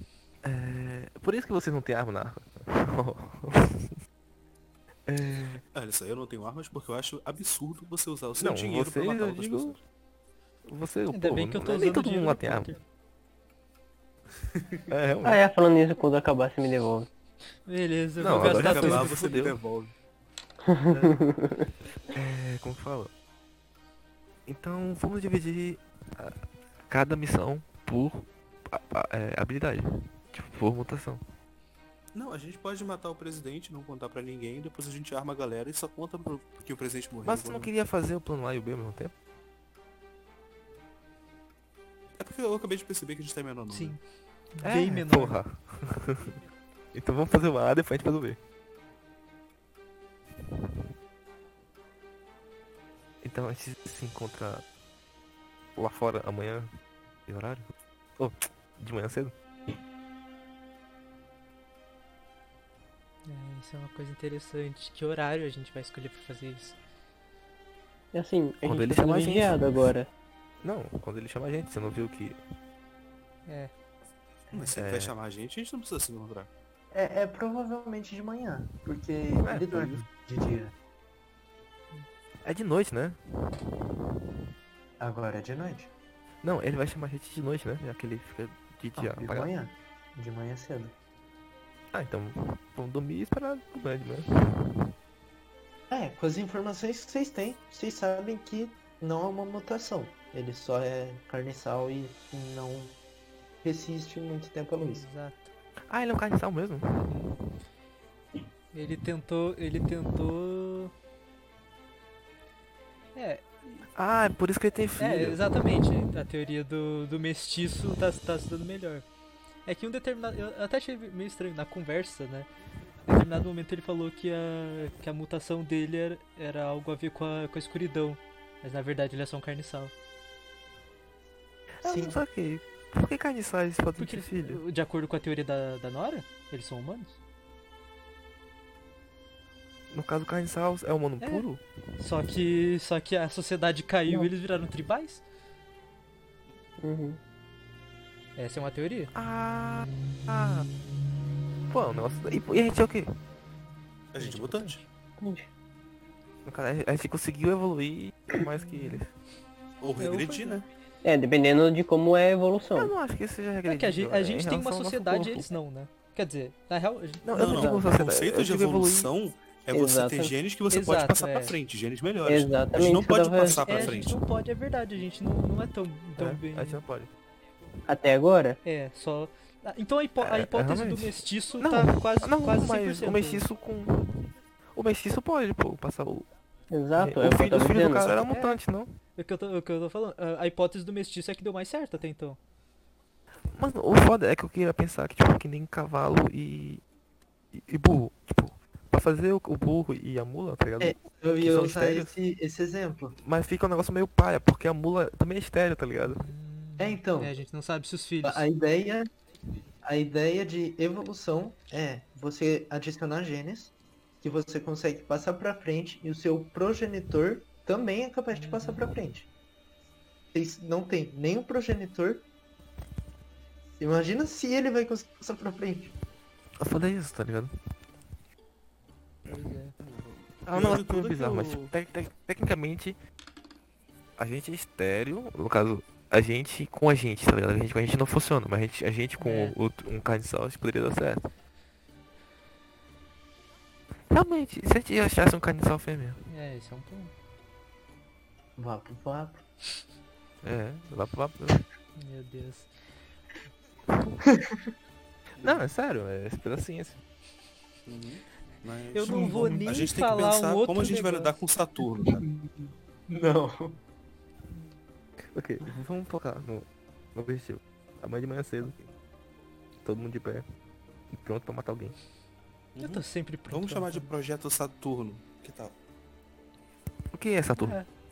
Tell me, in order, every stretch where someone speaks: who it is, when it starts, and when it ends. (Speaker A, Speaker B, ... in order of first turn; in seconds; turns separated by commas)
Speaker A: 0.4-3.9, Speaker A: 5.1-5.6, Speaker B: 5.7-9.8, Speaker A: 8.4-9.8, Speaker A: 10.7-12.7, Speaker C: 11.1-12.8, Speaker B: 14.4-14.9, Speaker A: 14.9-15.4, Speaker D: 15.2-17.1, Speaker C: 17.7-19.2, Speaker A: 18.2-19.6, Speaker B: 18.3-19.9, Speaker D: 20.7-21.7, Speaker A: 20.9-21.2, Speaker A: 22.1-23.1, Speaker A: 24.5-31.2, Speaker B: 32.1-37.7, Speaker A: 37.2-39.1, Speaker B: 42.2-44.0, Speaker C: 43.7-44.0, Speaker C: 44.5-45.4, Speaker A: 44.6-46.4, Speaker A: 46.9-48.4, Speaker A: 53.2-54.6, Speaker A: 55.8-56.7, Speaker A: 57.3-57.7, Speaker A: 58.2-59.3, Speaker C: 63.3-66.8, Speaker D: 68.1-70.1, Speaker A: 68.6-69.9, Speaker A: 70.6-72.4, Speaker C: 73.5-73.7, Speaker E: 74.5-74.8, Speaker B: 74.5-76.5, Speaker A: 74.8-75.1, Speaker E: 76.9-80.8, Speaker A: 79.4-80.0, Speaker A: 82.4-83.2, Speaker E: 85.0-85.9, Speaker A: 86.4-89.5, Speaker E: 89.0-90.9, Speaker A: 91.9-94.9, Speaker E: 95.9-103.0, Speaker E: 103.6-105.1, Speaker C: 104.8-105.5, Speaker A: 105.9-107.2, Speaker C: 107.0-107.4, Speaker C: 108.7-110.9, Speaker C: 113.2-113.9, Speaker A: 113.9-115.4, Speaker C: 115.0-119.1, Speaker C: 119.7-122.5, Speaker C: 123.1-129.9, Speaker A: 131.8-134.6, Speaker E: 131.8-132.2, Speaker C: 134.0-137.2, Speaker A: 139.9-141.6, Speaker C: 142.0-145.2, Speaker D: 146.8-147.2, Speaker C: 148.4-149.1, Speaker A: 149.1-150.7, Speaker A: 151.7-153.1, Speaker B: 154.1-154.8, Speaker C: 154.2-154.8, Speaker D: 155.2-155.5, Speaker A: 156.4-159.1, Speaker C: 158.5-159.0, Speaker B: 159.8-160.7, Speaker C: 160.0-160.6, Speaker D: 161.0-162.9, Speaker A: 162.7-165.5, Speaker C: 163.7-167.3, Speaker A: 167.2-169.1, Speaker B: 167.3-174.2, Speaker D: 167.3-167.9, Speaker D: 169.7-170.3, Speaker C: 170.7-171.6, Speaker D: 172.2-174.0, Speaker C: 173.6-176.8, Speaker A: 176.2-177.1, Speaker D: 177.9-178.6, Speaker C: 178.6-183.4, Speaker A: 180.2-186.3, Speaker D: 186.7-188.1, Speaker A: 187.0-188.9, Speaker C: 188.1-188.6, Speaker C: 189.2-192.4, Speaker A: 193.5-196.8, Speaker A: 197.5-202.1, Speaker E: 200.8-203.2, Speaker A: 203.2-206.3, Speaker C: 206.2-208.4, Speaker E: 206.8-207.3, Speaker E: 208.2-209.1, Speaker E: 209.8-219.3, Speaker C: 218.3-218.9, Speaker E: 220.3-222.3, Speaker E: 223.8-225.9, Speaker A: 226.6-227.5, Speaker C: 229.3-229.8, Speaker B: 229.8-231.7, Speaker A: 230.5-233.0, Speaker A: 234.2-241.3, Speaker C: 239.2-239.6, Speaker A: 244.1-246.3, Speaker C: 246.3-247.1, Speaker E: 248.6-249.4, Speaker A: 250.4-251.7, Speaker C: 252.0-252.7, Speaker A: 253.9-254.2, Speaker E: 254.3-254.7, Speaker A: 255.4-257.0, Speaker B: 257.9-262.3, Speaker C: 258.9-261.4, Speaker E: 259.1-259.6, Speaker E: 262.0-263.8, Speaker A: 265.3-268.9, Speaker A: 269.8-270.4, Speaker A: 271.1-271.9, Speaker B: 272.8-275.8, Speaker C: 272.8-274.1, Speaker A: 277.1-277.8, Speaker C: 277.6-277.9